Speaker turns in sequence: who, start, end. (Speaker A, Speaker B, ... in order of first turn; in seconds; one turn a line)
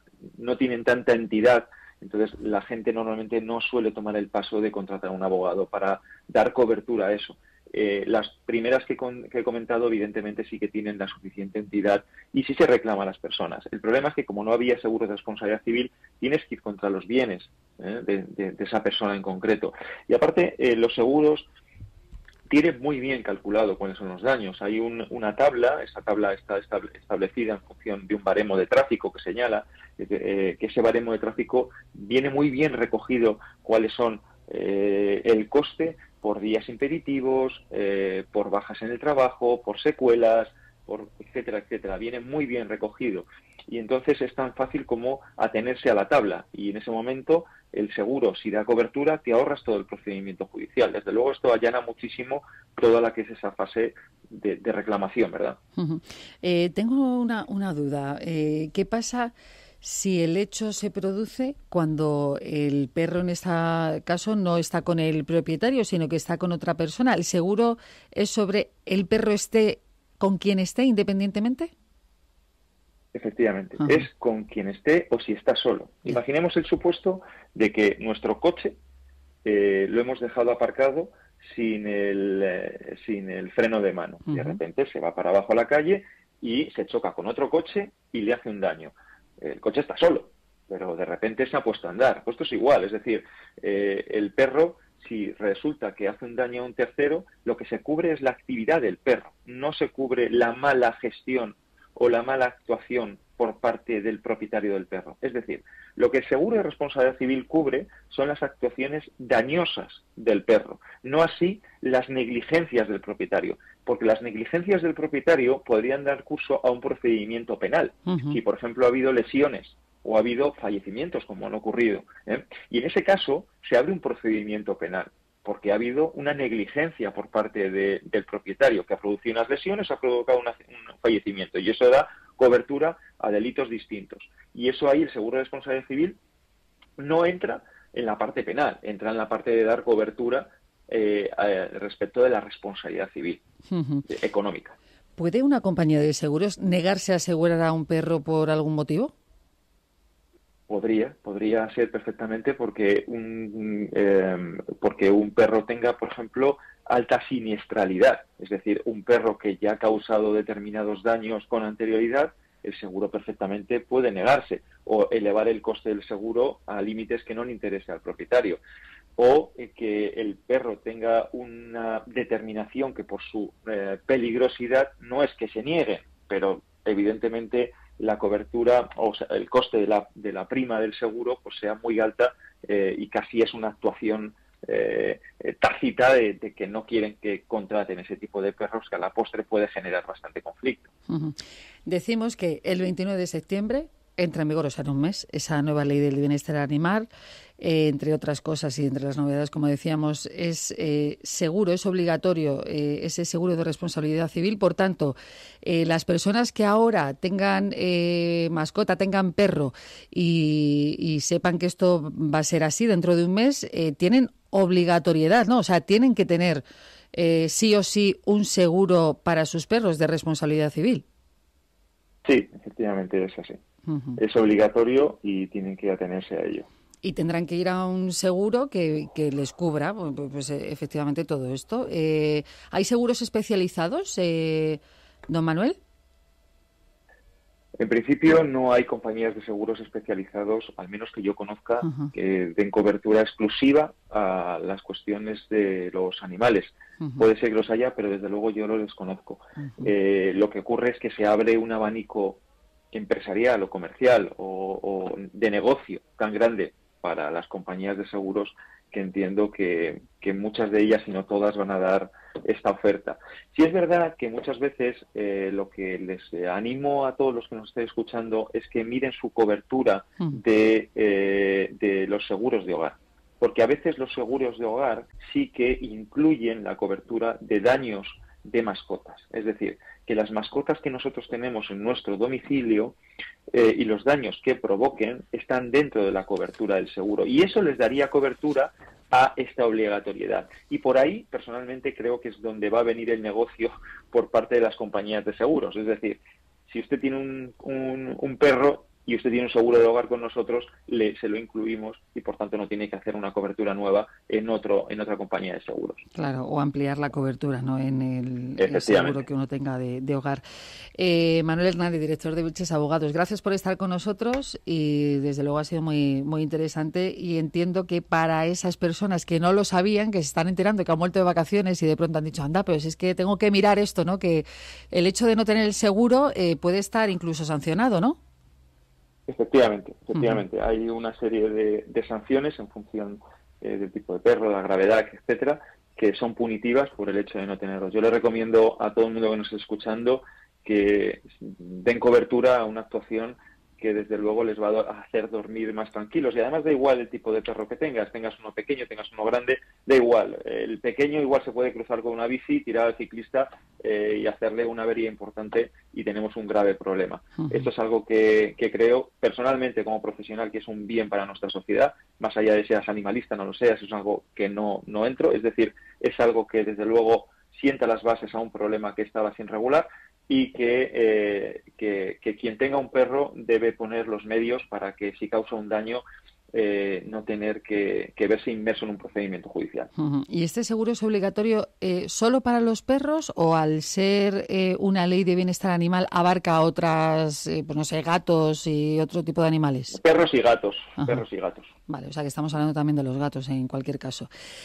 Speaker A: 0.3-21.5
Speaker A: 22.5-55.6
Speaker B: 55.8-71.7
Speaker A: 73.1-78.8
Speaker A: 79.4-136.2
Speaker B: 118.1-118.3
Speaker A: 137.0-143.4
Speaker B: 143.7-144.0
Speaker A: 144.1-144.7
Speaker B: 145.2-149.1
Speaker A: 150.7-168.6
Speaker A: 169.2-190.9
Speaker B: 191.1-197.1
Speaker B: 197.6-221.0
Speaker A: 222.2-223.6
Speaker B: 223.9-224.2
Speaker A: 224.2-226.7
Speaker B: 227.0-235.8
Speaker A: 237.8-252.4
Speaker B: 241.8-242.1
Speaker A: 252.9-283.0
Speaker A: 283.5-296.2
Speaker A: 296.7-306.0
Speaker B: 306.1-310.4
Speaker A: 308.6-309.2
Speaker B: 310.9-328.2
Speaker A: 329.3-379.9
Speaker B: 380.0-390.0
Speaker A: 389.9-391.7
Speaker B: 391.9-394.3